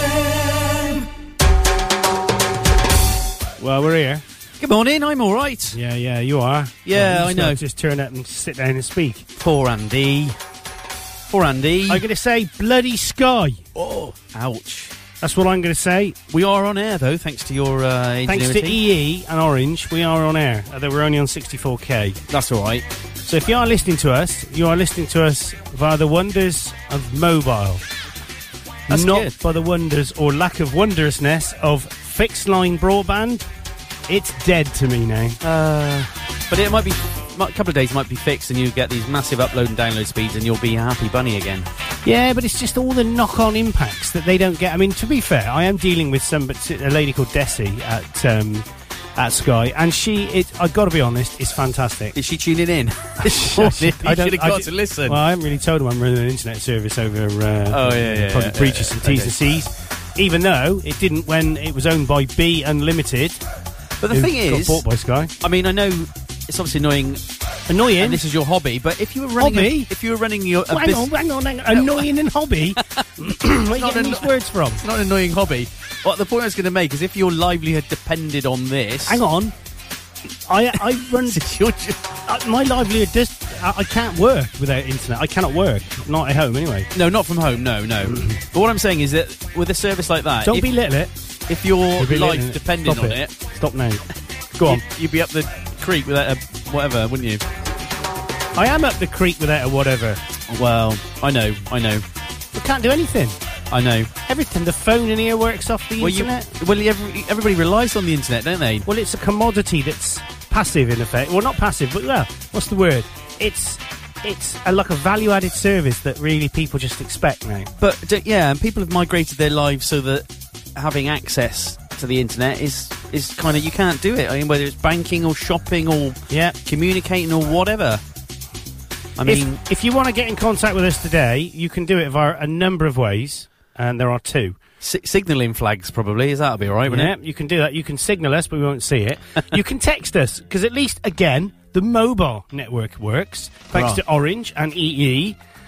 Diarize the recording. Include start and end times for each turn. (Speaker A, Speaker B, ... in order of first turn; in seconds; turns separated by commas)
Speaker A: 3.6-4.2, Speaker B: 4.6-5.8, Speaker A: 5.7-9.3, Speaker B: 6.9-7.6, Speaker B: 9.4-10.4, Speaker B: 11.3-12.1, Speaker A: 11.9-13.6, Speaker B: 13.8-14.9, Speaker A: 15.2-16.2, Speaker B: 16.3-18.8, Speaker A: 18.3-22.2, Speaker B: 22.3-22.9, Speaker A: 23.2-27.8, Speaker B: 28.9-29.3, Speaker A: 28.9-33.5, Speaker A: 34.1-35.4, Speaker B: 35.4-41.7, Speaker A: 42.0-52.2, Speaker B: 52.1-55.2, Speaker A: 53.2-63.4, Speaker B: 57.7-59.3, Speaker B: 64.0-64.8, Speaker A: 64.1-65.3, Speaker B: 65.4-67.2, Speaker A: 67.7-68.2, Speaker B: 68.0-71.1, Speaker A: 69.4-69.9, Speaker A: 70.7-74.8, Speaker B: 71.7-72.1, Speaker B: 73.7-79.2, Speaker A: 79.1-79.5, Speaker A: 80.5-81.4, Speaker B: 81.2-82.0, Speaker A: 82.3-86.9, Speaker B: 86.9-90.7, Speaker A: 88.1-88.3, Speaker A: 90.5-91.1, Speaker B: 91.5-93.3, Speaker A: 92.0-94.0, Speaker A: 94.6-94.8, Speaker B: 94.7-97.4, Speaker A: 98.5-100.2, Speaker B: 100.5-102.0, Speaker A: 102.5-103.4, Speaker B: 103.7-104.1, Speaker A: 104.2-106.5, Speaker B: 106.0-108.9, Speaker A: 108.9-117.7, Speaker B: 117.8-128.0, Speaker B: 129.2-129.6, Speaker A: 129.3-134.6, Speaker B: 134.8-137.1, Speaker A: 136.9-145.4, Speaker B: 143.7-144.0